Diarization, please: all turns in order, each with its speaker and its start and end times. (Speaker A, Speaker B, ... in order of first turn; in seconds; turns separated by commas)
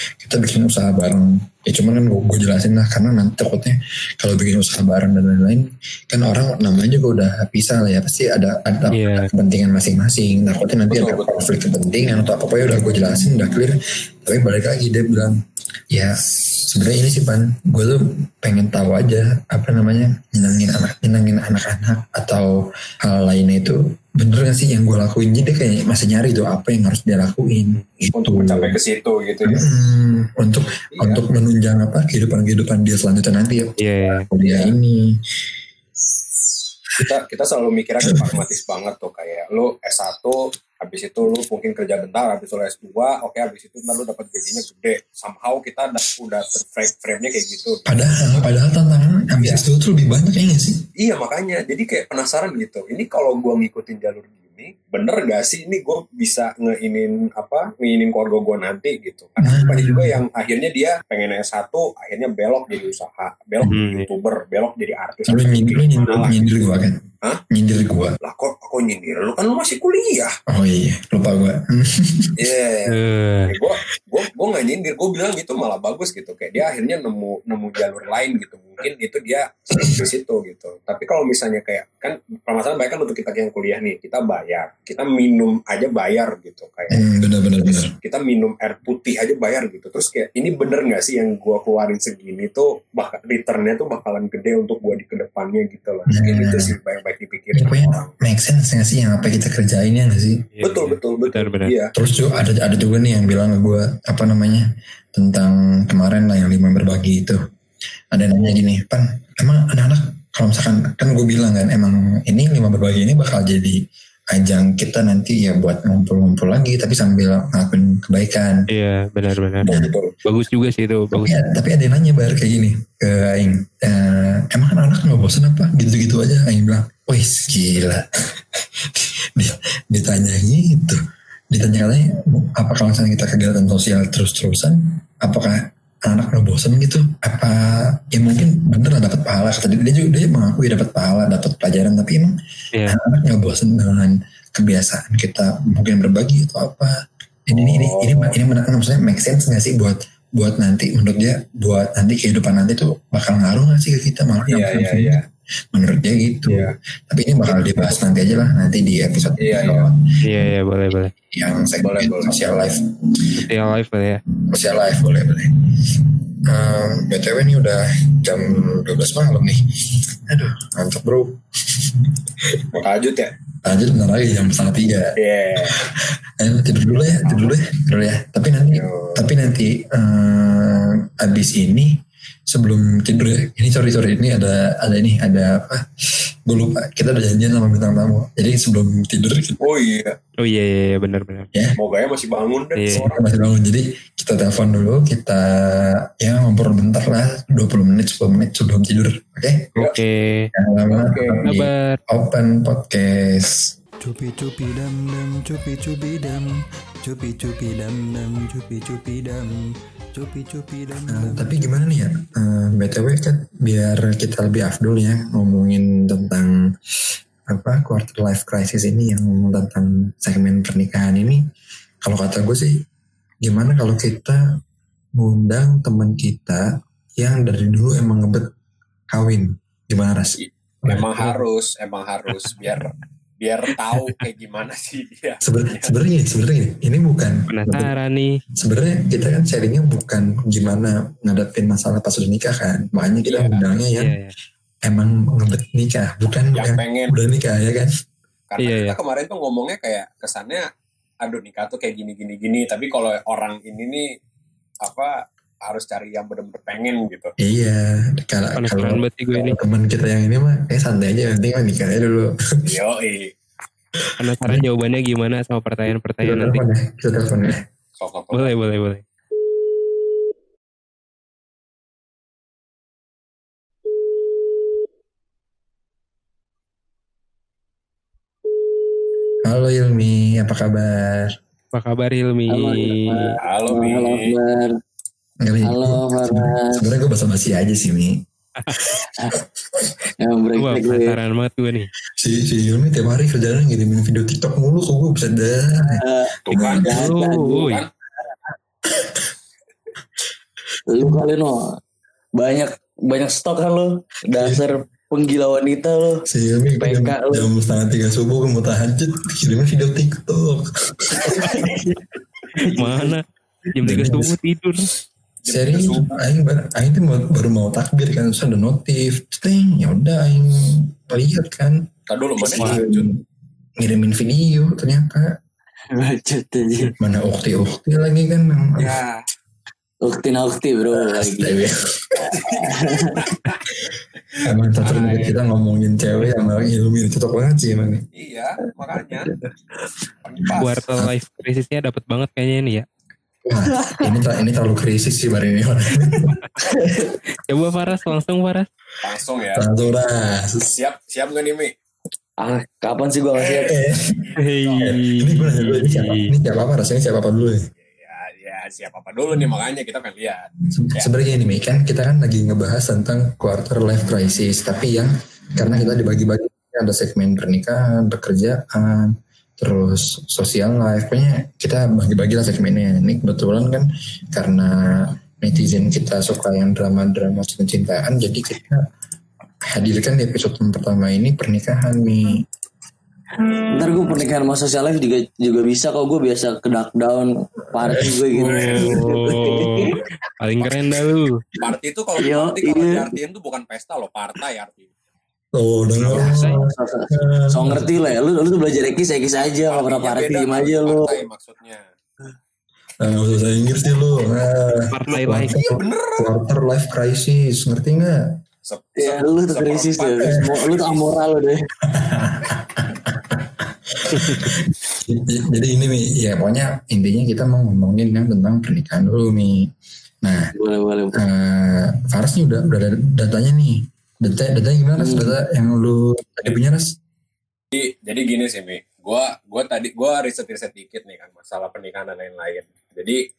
Speaker A: 0.2-15.4, Speaker B: 8.9-9.3, Speaker C: 10.9-11.4, Speaker A: 15.9-22.5, Speaker A: 23.0-28.8, Speaker C: 28.1-29.6, Speaker A: 29.4-35.2, Speaker C: 30.5-31.2, Speaker B: 33.8-34.2, Speaker C: 34.4-34.7, Speaker C: 37.0-48.5, Speaker A: 38.0-38.4, Speaker A: 47.9-50.8, Speaker C: 49.4-49.6, Speaker C: 51.0-66.6, Speaker A: 59.4-60.2, Speaker B: 63.6-64.1, Speaker A: 65.3-68.2, Speaker C: 68.2-70.3, Speaker A: 70.5-72.3, Speaker C: 72.3-87.0, Speaker B: 72.9-73.6, Speaker A: 79.8-80.0, Speaker A: 86.9-87.9, Speaker C: 87.7-98.1, Speaker A: 96.1-96.8, Speaker A: 97.5-100.3, Speaker B: 100.5-101.7, Speaker C: 100.6-101.9, Speaker A: 101.9-107.4, Speaker A: 108.1-113.8, Speaker A: 114.3-118.6, Speaker B: 118.7-119.6, Speaker C: 119.6-120.1, Speaker B: 120.2-121.4, Speaker A: 121.1-128.1, Speaker A: 128.8-131.0, Speaker A: 131.5-142.3, Speaker A: 142.8-146.9, Speaker A: 147.5-155.2, Speaker C: 147.5-148.3, Speaker C: 154.5-155.2, Speaker A: 155.7-160.5, Speaker C: 156.5-156.7, Speaker C: 157.4-158.0, Speaker C: 159.4-159.9, Speaker B: 160.2-161.1, Speaker A: 161.3-163.4, Speaker C: 161.8-162.4, Speaker B: 163.4-164.2, Speaker A: 164.5-172.8, Speaker C: 172.7-173.3, Speaker A: 173.6-175.1, Speaker C: 175.2-175.8, Speaker A: 175.8-185.9, Speaker C: 177.0-177.5, Speaker C: 178.7-179.3, Speaker A: 186.5-189.6, Speaker C: 189.6-190.2, Speaker B: 190.4-191.5, Speaker C: 191.8-193.2, Speaker B: 192.8-193.1, Speaker A: 192.9-199.8, Speaker B: 199.8-200.5, Speaker A: 200.5-203.7, Speaker C: 200.9-201.5, Speaker B: 201.4-202.0, Speaker D: 204.0-209.6, Speaker D: 210.1-212.1, Speaker A: 211.1-216.5, Speaker A: 217.5-221.4, Speaker A: 222.0-222.8, Speaker A: 223.4-224.4, Speaker A: 225.2-226.7, Speaker A: 227.2-228.5, Speaker A: 229.1-231.3, Speaker C: 230.4-235.9, Speaker A: 235.4-237.9, Speaker B: 237.5-238.4, Speaker A: 238.6-244.2, Speaker C: 243.0-243.6, Speaker B: 243.9-244.3, Speaker A: 244.8-247.9, Speaker C: 246.5-247.1, Speaker C: 248.5-250.7, Speaker B: 248.6-249.0, Speaker C: 251.2-254.1, Speaker C: 254.8-257.3, Speaker A: 257.4-262.4, Speaker B: 258.6-259.6, Speaker C: 262.6-263.3, Speaker A: 264.0-264.7, Speaker B: 264.2-266.6, Speaker A: 266.2-267.6, Speaker C: 268.0-268.5, Speaker B: 268.3-269.0, Speaker A: 279.4-281.4, Speaker B: 281.7-283.3, Speaker E: 282.5-284.7, Speaker C: 283.4-284.3, Speaker A: 285.4-288.2, Speaker E: 285.6-286.8, Speaker B: 288.6-288.9, Speaker E: 289.1-291.2, Speaker B: 290.6-291.9, Speaker A: 292.2-296.8, Speaker E: 295.8-297.7, Speaker C: 296.4-297.9, Speaker B: 296.8-297.8, Speaker E: 300.9-301.6, Speaker E: 302.4-306.2, Speaker A: 304.4-304.6, Speaker A: 306.3-311.8, Speaker E: 306.8-307.5, Speaker E: 311.1-312.0, Speaker E: 312.5-313.2, Speaker B: 312.8-313.2, Speaker B: 313.7-314.9, Speaker A: 313.8-314.4, Speaker C: 315.4-316.1, Speaker A: 315.5-321.9, Speaker C: 322.1-323.0, Speaker E: 322.4-323.0, Speaker A: 322.5-323.2, Speaker A: 323.8-325.4, Speaker E: 325.9-326.9, Speaker A: 327.0-329.0, Speaker C: 328.8-329.2, Speaker E: 330.0-333.1, Speaker A: 331.1-331.7, Speaker C: 332.3-333.6, Speaker A: 334.4-338.0, Speaker C: 334.8-335.4, Speaker C: 338.1-339.3, Speaker E: 339.2-339.5, Speaker C: 340.2-340.8, Speaker A: 340.4-341.1, Speaker B: 340.6-342.9, Speaker A: 343.4-346.4, Speaker E: 346.6-347.1, Speaker B: 347.4-348.7, Speaker C: 349.0-349.9, Speaker A: 349.5-350.7, Speaker C: 350.7-351.7, Speaker E: 352.4-353.8, Speaker C: 353.3-355.0, Speaker A: 353.7-354.2, Speaker B: 354.4-356.3, Speaker A: 354.8-357.7, Speaker C: 357.9-361.1, Speaker A: 360.7-378.8, Speaker A: 379.7-382.4, Speaker E: 383.7-390.0, Speaker A: 387.8-388.2, Speaker B: 388.4-391.4, Speaker C: 388.5-388.9, Speaker C: 391.6-394.9, Speaker E: 392.2-393.1, Speaker A: 395.6-396.6, Speaker E: 396.1-401.2, Speaker B: 396.2-396.5, Speaker A: 397.1-398.1, Speaker C: 399.7-401.8, Speaker A: 403.0-408.4, Speaker B: 404.9-405.5, Speaker C: 405.1-406.3, Speaker C: 408.6-411.1, Speaker E: 409.0-411.6, Speaker A: 411.9-419.7, Speaker B: 414.1-414.5, Speaker A: 420.2-420.5, Speaker E: 420.5-421.2, Speaker A: 421.1-427.0, Speaker E: 425.0-425.3, Speaker C: 427.7-433.2